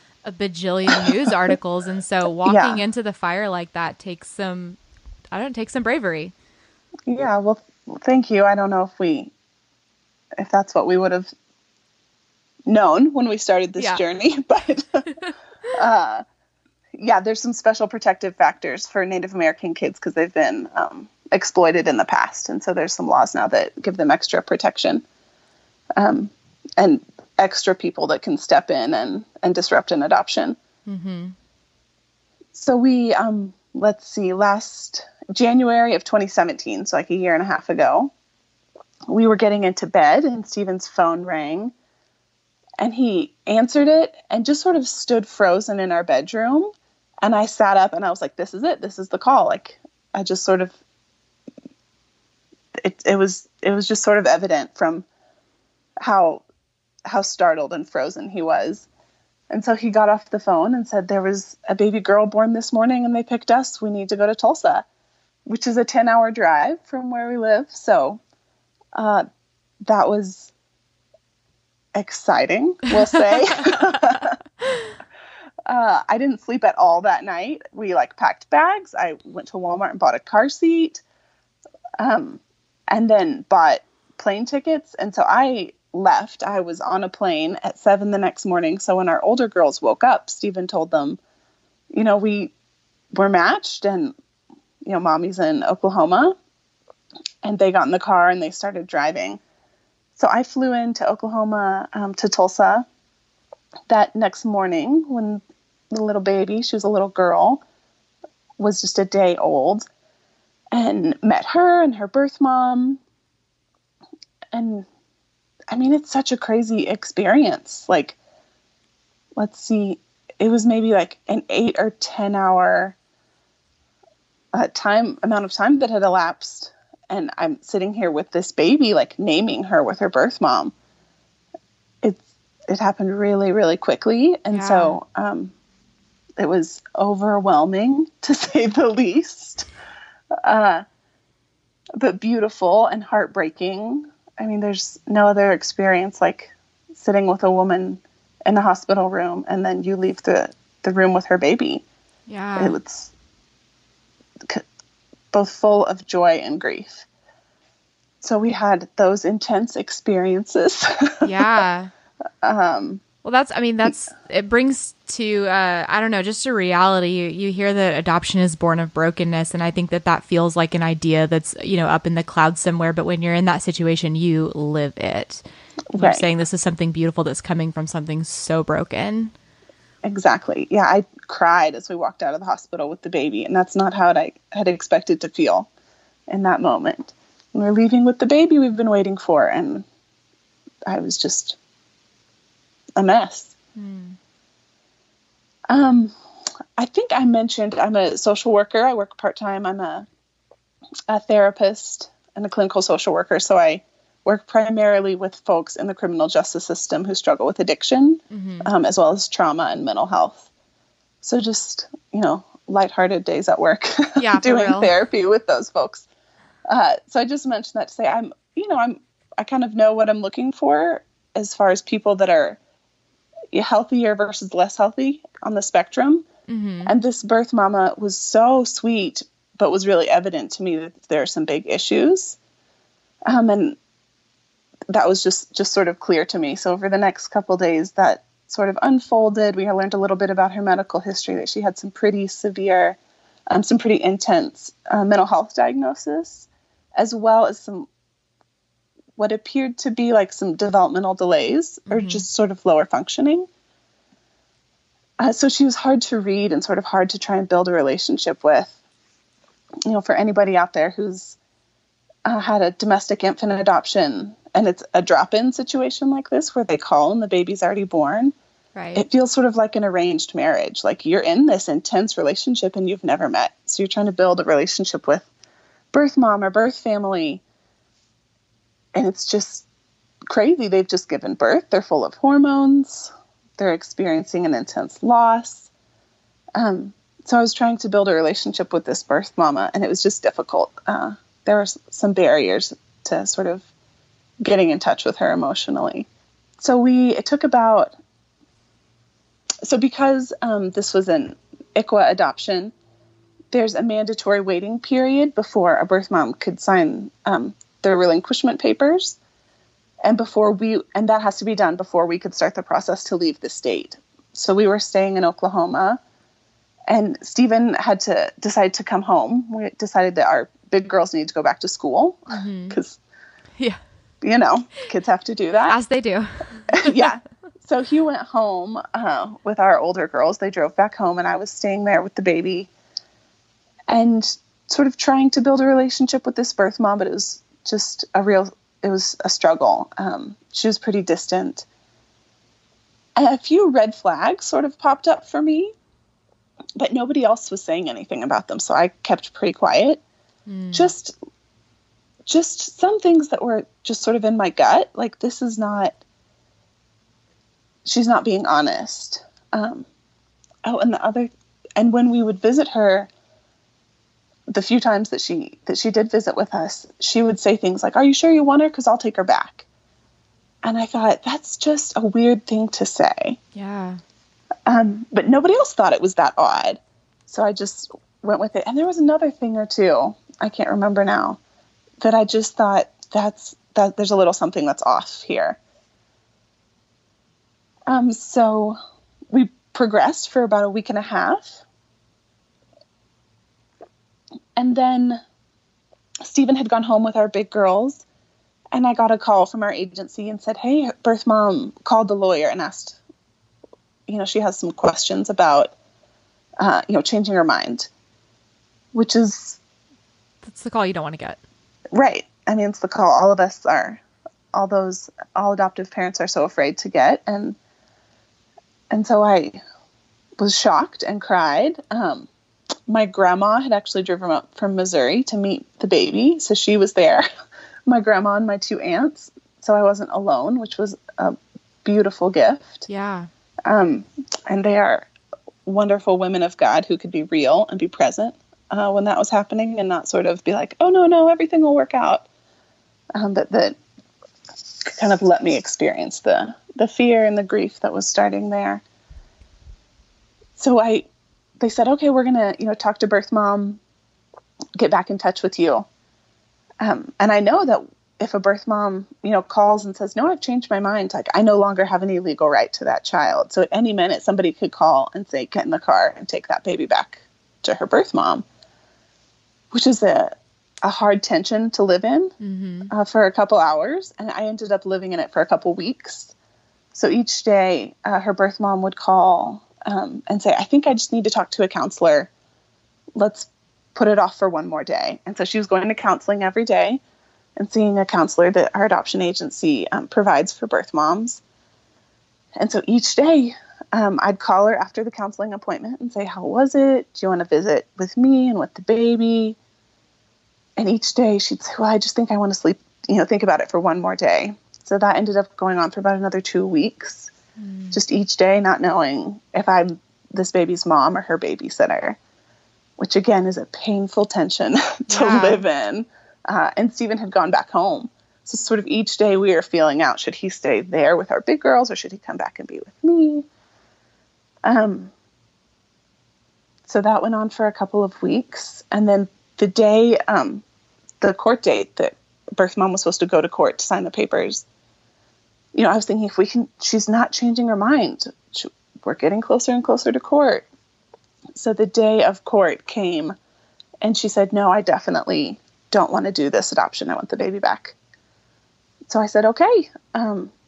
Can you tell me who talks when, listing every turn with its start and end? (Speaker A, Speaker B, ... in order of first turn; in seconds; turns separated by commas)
Speaker A: 0.2-4.8, Speaker B: 2.5-2.8, Speaker A: 5.3-6.3, Speaker B: 7.1-9.3, Speaker B: 10.4-11.3, Speaker B: 12.7-15.1, Speaker B: 15.7-16.2, Speaker B: 16.9-25.0, Speaker B: 26.0-30.6, Speaker A: 30.9-31.4, Speaker B: 32.5-38.1, Speaker B: 39.1-41.7, Speaker B: 42.8-46.7, Speaker B: 47.2-50.8, Speaker B: 52.8-55.1, Speaker B: 56.0-56.4, Speaker B: 57.1-58.9, Speaker B: 59.5-64.8, Speaker B: 65.5-68.2, Speaker B: 68.9-69.2, Speaker B: 69.8-70.5, Speaker B: 72.0-74.4, Speaker B: 75.7-81.0, Speaker B: 82.0-91.2, Speaker B: 91.9-92.5, Speaker B: 93.1-94.1, Speaker B: 94.8-96.4, Speaker B: 97.4-99.4, Speaker B: 100.2-102.9, Speaker B: 103.9-107.6, Speaker B: 108.6-109.9, Speaker B: 110.7-113.0, Speaker B: 114.5-114.9, Speaker B: 115.7-118.2, Speaker B: 119.4-123.0, Speaker B: 124.5-130.7, Speaker B: 132.0-135.5, Speaker A: 134.5-135.0, Speaker B: 136.4-139.7, Speaker B: 140.4-140.8, Speaker B: 142.0-151.8, Speaker A: 152.3-152.8, Speaker B: 152.6-153.1, Speaker B: 155.3-157.1, Speaker B: 158.2-161.5, Speaker A: 161.2-161.9, Speaker B: 162.4-163.0, Speaker A: 163.2-175.4, Speaker B: 175.9-176.3, Speaker A: 175.9-179.3, Speaker B: 180.0-185.7, Speaker B: 186.3-189.9, Speaker B: 190.9-191.6, Speaker B: 193.0-193.5, Speaker A: 193.8-194.2, Speaker B: 195.7-196.1, Speaker B: 196.8-200.1, Speaker B: 201.1-210.5, Speaker A: 208.3-208.7, Speaker B: 211.2-216.1, Speaker A: 214.2-214.9, Speaker B: 216.7-222.6, Speaker B: 223.5-226.3, Speaker A: 226.5-226.9, Speaker B: 226.9-232.4, Speaker B: 233.3-233.8, Speaker B: 234.9-243.0, Speaker B: 243.5-247.9, Speaker B: 249.2-253.5, Speaker A: 251.9-252.3, Speaker B: 255.2-258.8, Speaker B: 259.9-261.4, Speaker B: 262.3-268.3, Speaker A: 268.8-269.0, Speaker B: 268.9-275.3, Speaker B: 275.9-277.4, Speaker B: 278.9-279.7, Speaker B: 280.3-285.7, Speaker B: 286.6-293.7, Speaker B: 294.4-296.1, Speaker B: 296.6-297.9, Speaker B: 299.6-302.7, Speaker B: 303.5-309.2, Speaker B: 310.0-316.0, Speaker B: 316.9-323.0, Speaker A: 322.3-322.8, Speaker B: 324.2-325.8, Speaker A: 325.7-327.1, Speaker B: 326.7-332.7, Speaker B: 333.9-341.7, Speaker B: 343.2-345.7, Speaker B: 346.8-350.0, Speaker A: 350.5-350.9, Speaker B: 350.7-351.1, Speaker B: 352.3-356.0, Speaker B: 357.9-359.9, Speaker B: 360.6-363.1, Speaker B: 364.5-369.7, Speaker B: 370.6-373.4, Speaker A: 373.6-374.0, Speaker B: 374.7-381.4, Speaker B: 382.0-385.6, Speaker B: 387.9-388.8, Speaker B: 389.3-391.6, Speaker B: 394.6-395.2, Speaker B: 396.2-398.0, Speaker B: 398.7-403.0, Speaker B: 404.1-405.7, Speaker B: 406.6-407.9, Speaker B: 408.9-409.6, Speaker A: 410.4-411.4, Speaker B: 411.9-414.0, Speaker B: 414.5-417.6, Speaker B: 418.9-419.6, Speaker B: 420.4-422.3, Speaker B: 422.9-427.3, Speaker B: 427.9-432.9, Speaker A: 432.9-433.3, Speaker B: 433.6-435.1, Speaker B: 435.7-442.3, Speaker B: 443.1-443.8, Speaker B: 444.9-448.8, Speaker B: 450.6-451.1, Speaker B: 451.6-453.8, Speaker B: 454.8-455.9, Speaker B: 456.8-468.4, Speaker B: 469.7-472.3, Speaker A: 472.4-472.9, Speaker B: 472.9-476.3, Speaker B: 476.9-482.3, Speaker B: 483.2-487.0, Speaker B: 487.6-491.4, Speaker B: 492.6-499.6, Speaker B: 500.8-507.3, Speaker A: 507.6-508.0, Speaker B: 507.9-512.2, Speaker B: 513.0-523.5, Speaker A: 515.1-515.6, Speaker B: 524.6-525.1, Speaker B: 526.9-530.6, Speaker B: 531.2-534.7, Speaker B: 535.8-540.7, Speaker B: 541.5-543.4, Speaker B: 544.0-548.0, Speaker B: 549.1-550.5